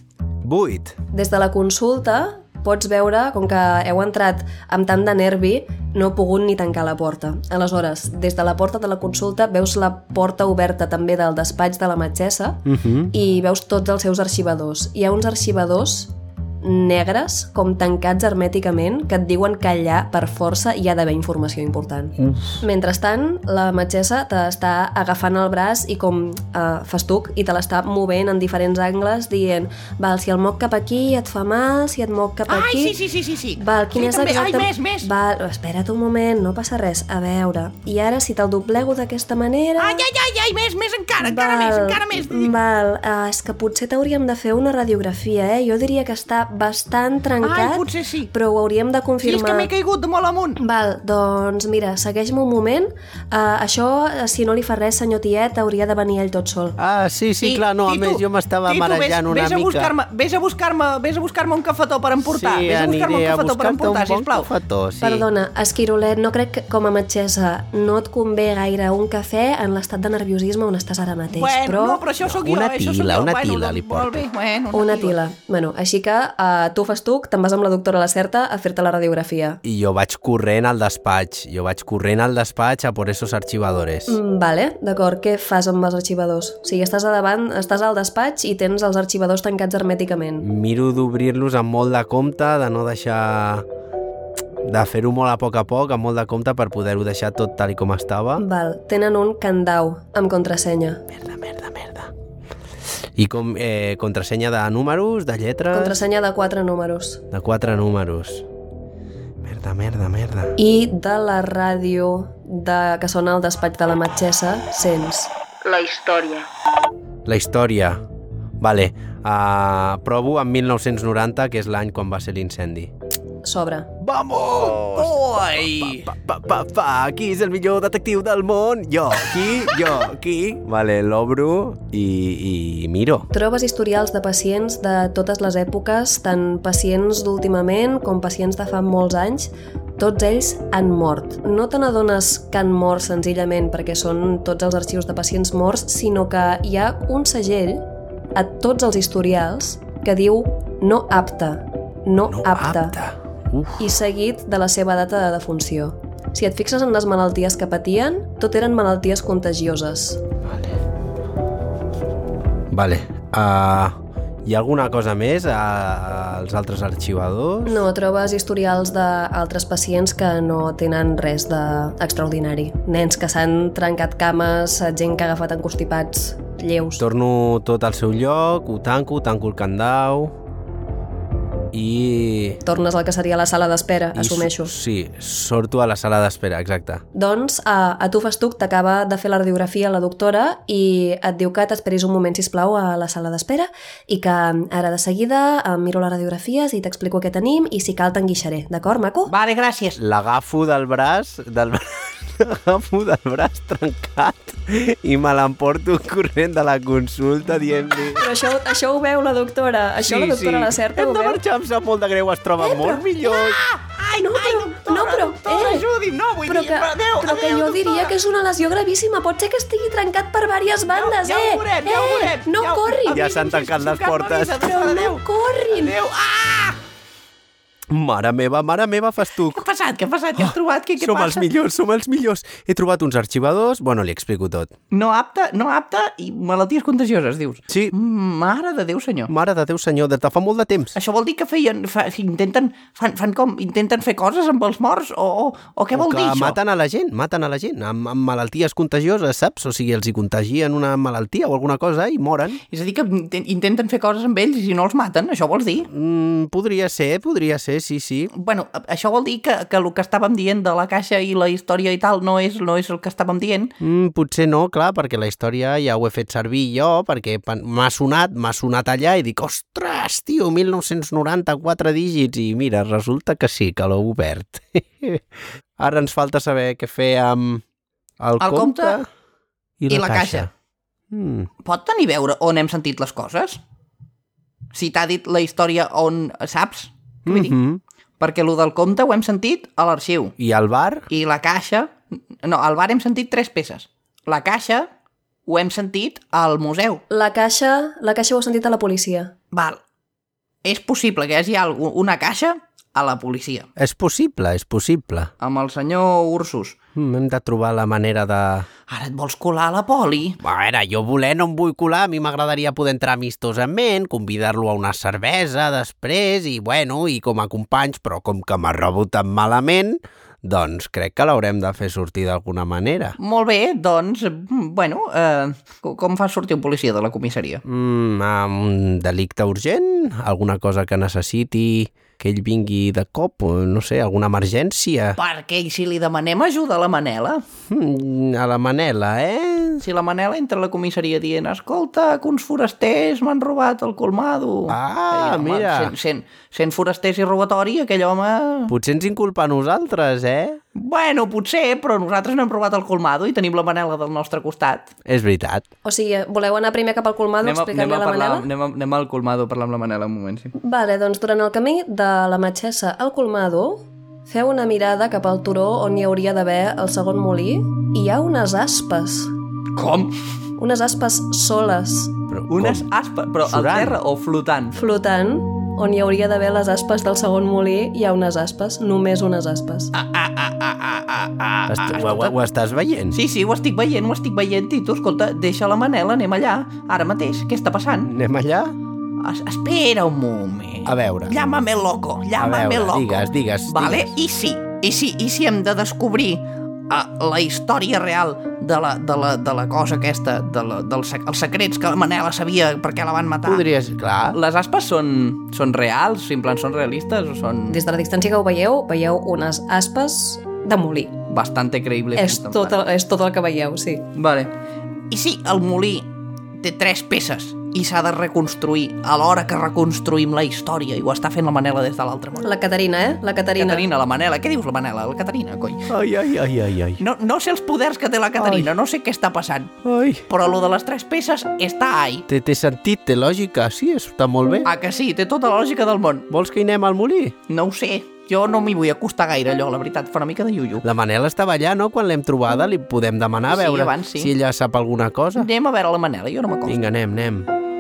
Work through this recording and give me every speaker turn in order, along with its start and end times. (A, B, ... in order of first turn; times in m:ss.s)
0:00.4-0:01.0 A
0:01.1-0:33.0 B
0:12.7-0:13.1 A
0:22.3-0:22.6 A
0:32.5-0:35.1 C
0:33.6-0:40.1 B
0:39.8-0:42.5 C
0:41.2-0:49.7 B
0:47.4-0:48.3 C
0:49.2-0:50.6 C
0:50.6-0:56.8 B
0:56.8-0:59.9 A
0:57.4-1:04.5 C
1:02.2-1:05.3 A
1:05.0-1:12.0 B
1:11.3-1:15.2 C
1:12.2-1:14.2 A
1:14.7-1:19.6 B
1:19.6-1:24.2 A
1:24.1-1:30.5 B
1:30.4-1:33.6 A
1:34.6-1:38.4 A
1:38.4-1:41.0 B
1:41.1-1:42.1 A
1:43.2-1:46.0 A
1:45.7-1:47.2 B
1:47.3-1:48.5 A
1:49.4-1:50.6 A
1:50.6-1:56.5 B
1:57.2-1:58.0 A
1:58.6-2:02.9 A
2:03.4-2:03.9 B
2:04.0-2:13.3 A
2:04.6-2:06.1 C
2:13.3-2:27.8 B
2:28.4-2:33.0 B
2:32.3-2:33.8 A
2:33.8-2:40.2 B
2:40.5-2:40.8 A
2:42.7-2:47.8 A
2:47.6-2:57.0 B
2:57.0-3:00.4 A
3:01.7-3:02.6 A
3:02.6-3:04.7 B
3:04.2-3:07.0 A
3:07.1-3:19.3 B
3:19.3-3:20.0 C
3:20.0-3:28.3 A
3:28.2-3:31.4 B
3:30.0-3:33.6 A
3:32.6-3:33.0 B
3:33.2-3:38.1 C
3:34.2-3:35.9 B
3:36.5-3:43.3 B
3:40.9-3:46.8 C
3:43.1-3:44.7 A
3:44.6-3:46.0 B
3:47.9-3:49.6 A
3:49.5-3:51.5 C
3:50.4-3:54.7 A
3:54.9-3:59.3 C
3:59.3-4:01.0 A
4:01.0-4:06.6 C
4:05.9-4:12.6 A
4:12.7-4:15.9 C
4:15.9-4:18.3 A
4:18.3-4:23.7 C
4:23.8-4:37.6 A
4:38.2-4:39.1 A
4:38.4-4:39.0 C
4:39.8-4:40.5 A
4:39.9-4:40.5 C
4:41.1-4:41.5 A
4:41.6-4:43.6 C
4:44.7-4:47.6 C
4:47.3-4:47.8 A
4:48.2-4:50.4 C
4:50.4-4:51.1 A
4:51.1-4:54.9 C
4:55.5-4:57.0 C
4:57.1-4:59.3 B
4:59.5-4:59.8 C
5:00.6-5:03.7 C
5:03.8-5:05.3 A
5:05.4-5:06.8 C
5:07.0-5:08.7 A
5:08.9-5:10.4 C
5:10.4-5:23.2 A
5:23.2-5:27.6 C
5:27.6-5:35.2 A
5:35.2-5:37.4 C
5:37.7-5:39.8 A
5:39.8-5:48.7 C
5:44.7-5:45.9 A
5:48.7-5:50.6 A
5:50.8-5:54.9 C
5:55.1-5:55.6 A
5:55.8-5:58.5 B
5:57.4-6:00.5 C
6:00.6-6:09.3 B
6:09.8-6:10.1 C
6:10.6-6:12.2 B
6:12.3-6:12.9 A
6:12.5-6:14.8 C
6:13.5-6:14.0 A
6:14.7-6:19.9 B
6:19.9-6:22.3 C
6:21.7-6:23.2 A
6:23.1-6:28.1 C
6:28.0-6:28.8 A
6:29.2-6:43.7 C
6:30.9-6:31.4 A
6:32.4-6:34.1 A
6:43.4-6:44.4 A
6:44.3-6:47.8 C
6:47.7-6:51.2 B
6:51.3-6:52.8 C
6:52.2-6:54.1 B
6:54.2-6:54.5 C
6:55.1-6:56.1 C
6:56.6-7:02.5 C
7:02.4-7:03.9 B
7:03.6-7:05.9 C
7:05.9-7:07.0 A
7:07.0-7:09.8 C
7:08.4-7:08.7 A
7:09.8-7:10.3 A
7:10.3-7:12.3 C
7:12.3-7:14.7 A
7:14.6-7:16.3 C
7:16.3-7:17.4 A
7:17.5-7:20.8 C
7:20.8-7:25.5 A
7:23.5-7:24.3 C
7:25.4-7:26.8 C
7:26.7-7:27.5 A